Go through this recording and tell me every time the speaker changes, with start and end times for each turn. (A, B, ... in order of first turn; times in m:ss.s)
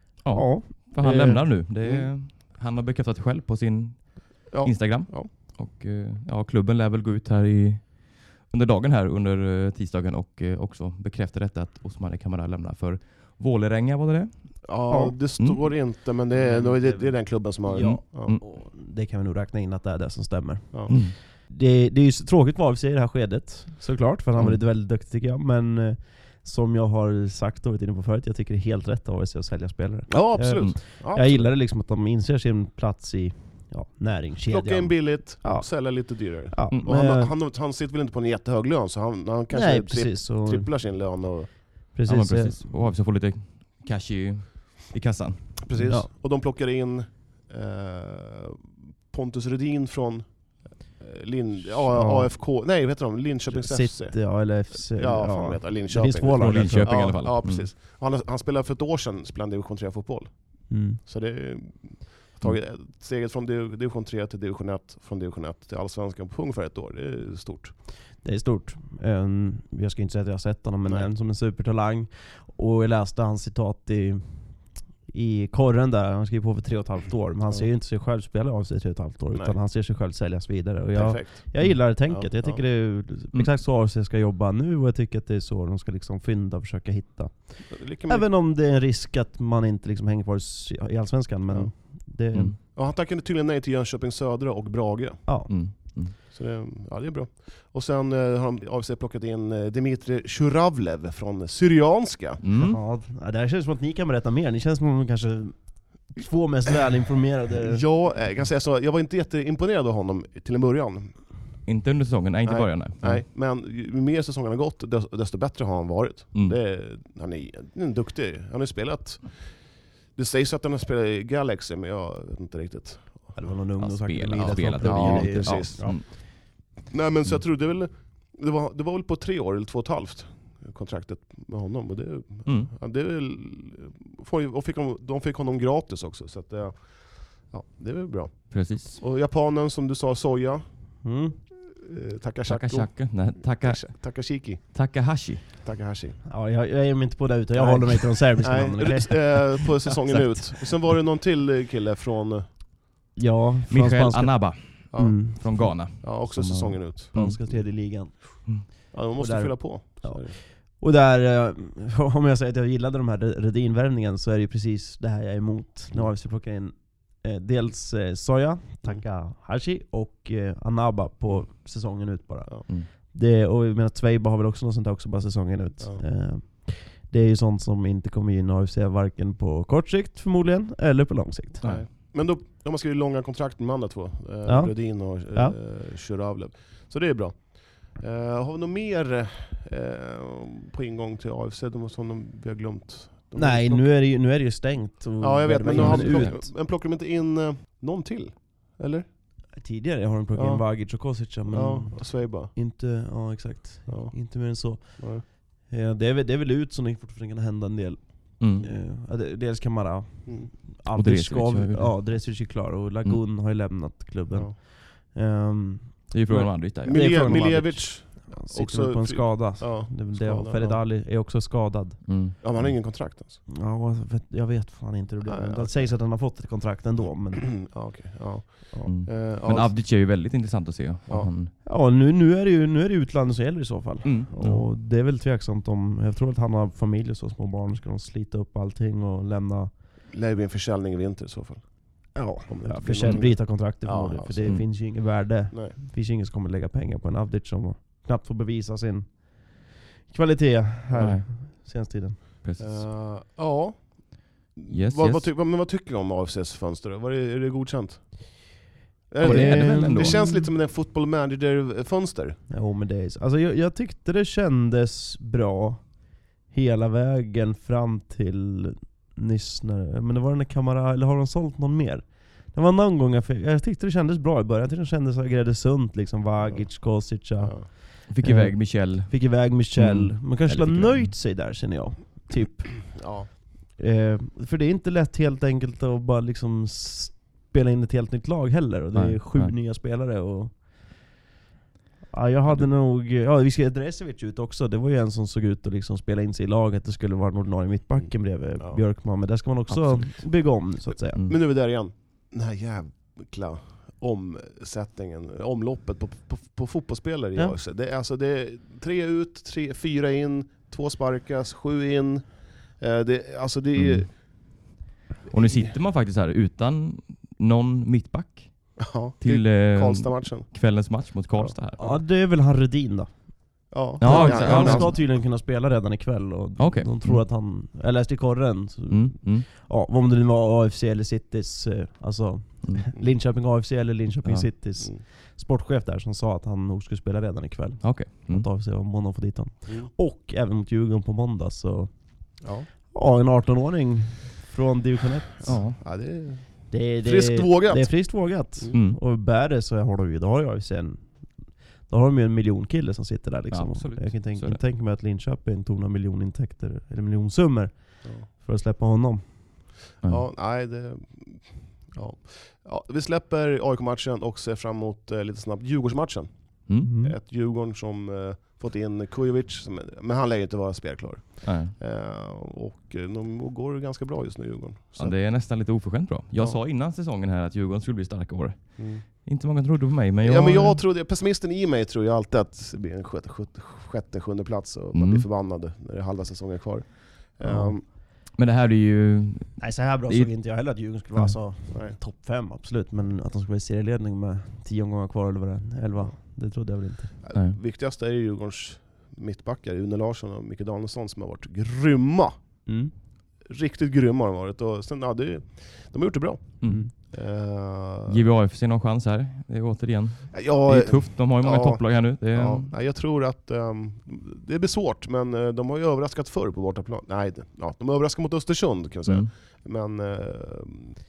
0:00.2-0:14.7 A
0:00.3-0:01.5 B
0:01.8-0:02.1 C
0:04.5-0:05.3 C
0:14.6-0:18.4 C
0:14.9-0:15.2 B
0:16.3-0:37.3 B
0:17.8-0:18.4 A
0:20.9-0:21.1 A
0:30.1-0:31.5 C
0:34.5-0:41.5 C
0:39.5-0:40.7 B
0:41.9-0:42.9 B
0:42.1-0:45.9 A
0:45.6-0:50.4 C
0:45.8-0:46.1 B
0:50.9-1:07.7 C
0:51.8-0:52.4 B
0:53.5-0:57.0 B
0:56.3-0:57.7 A
1:00.7-1:01.0 B
1:08.2-1:32.5 B
1:20.9-1:22.6 C
1:27.7-1:28.3 C
1:32.7-1:35.2 C
1:35.5-1:36.2 A
1:36.3-1:42.4 C
1:42.4-1:42.8 A
1:42.5-1:47.8 B
1:47.6-1:51.1 C
1:51.6-1:53.2 A
1:52.4-1:59.3 C
2:00.1-2:03.5 C
2:03.3-2:06.0 B
2:03.8-2:06.8 A
2:04.4-2:20.6 C
2:12.4-2:12.7 A
2:18.5-2:19.0 A
2:21.0-2:21.4 B
2:21.6-2:24.8 C
2:22.5-2:25.4 A
2:25.6-2:26.2 C
2:26.2-2:30.6 B
2:27.6-2:32.5 C
2:33.2-2:35.8 B
2:33.7-2:37.4 A
2:34.9-2:37.5 C
2:37.1-3:01.6 B
2:38.9-2:40.4 C
3:01.6-3:01.9 A
3:01.6-3:13.9 C
3:04.4-3:05.6 B
3:13.3-3:16.5 B
3:15.2-3:19.0 C
3:15.7-3:16.4 A
3:19.5-3:42.0 B
3:20.3-3:20.7 C
3:21.5-3:22.5 C
3:23.9-3:24.2 C
3:24.8-3:25.2 C
3:28.4-3:28.7 A
3:30.2-3:30.5 C
3:30.9-3:32.3 A
3:36.1-3:37.8 A
3:36.8-3:40.8 C
3:42.0-3:42.7 A
3:42.4-3:43.4 C
3:43.5-3:47.6 B
3:45.2-3:45.9 C
3:47.4-3:49.8 C
3:48.8-3:51.5 A
3:51.6-3:59.7 B
3:54.0-3:54.6 A
4:00.1-4:01.6 C
4:02.1-4:12.2 B
4:02.5-4:04.6 C
4:11.0-4:11.2 A
4:12.4-4:12.8 A
4:12.6-4:18.6 C
4:14.7-4:15.3 A
4:19.1-4:22.4 C
4:19.2-4:20.5 B
4:19.2-4:20.3 A
4:22.5-4:43.0 B
4:36.4-4:36.7 C
4:37.4-4:37.7 C
4:38.1-4:41.1 A
4:42.9-4:43.3 C
4:43.7-4:50.9 B
4:48.9-4:49.5 A
4:52.1-5:01.2 B
4:59.7-5:00.1 A
5:01.2-5:14.1 C
5:13.8-5:14.1 A
5:15.3-5:15.7 C
5:15.3-5:21.9 A
5:18.8-5:20.5 C
5:21.8-5:23.1 B
5:23.7-5:25.0 C
5:24.0-5:25.0 A
5:24.0-5:42.4 B
5:26.6-5:27.2 A
5:28.9-5:29.5 A
5:37.8-5:38.4 A
5:42.4-5:42.7 C
5:42.9-5:45.7 B
5:45.4-5:45.8 A
5:45.4-5:48.8 C
5:46.7-5:59.3 B
5:48.7-5:49.0 A
5:53.5-5:54.6 A
6:00.0-6:15.2 C
6:06.8-6:07.2 B
6:11.4-6:11.7 A
6:15.0-6:20.8 A
6:18.8-6:19.0 C
6:20.2-6:27.8 C
6:24.9-6:25.2 A
6:27.4-6:27.8 B
6:28.4-6:31.3 A
6:29.6-6:37.1 B
6:31.7-6:32.0 C
6:37.2-6:42.3 C
6:42.6-6:42.9 B
6:43.4-6:48.2 C
6:46.6-6:46.9 B
6:48.1-6:52.7 A
6:50.3-7:00.9 C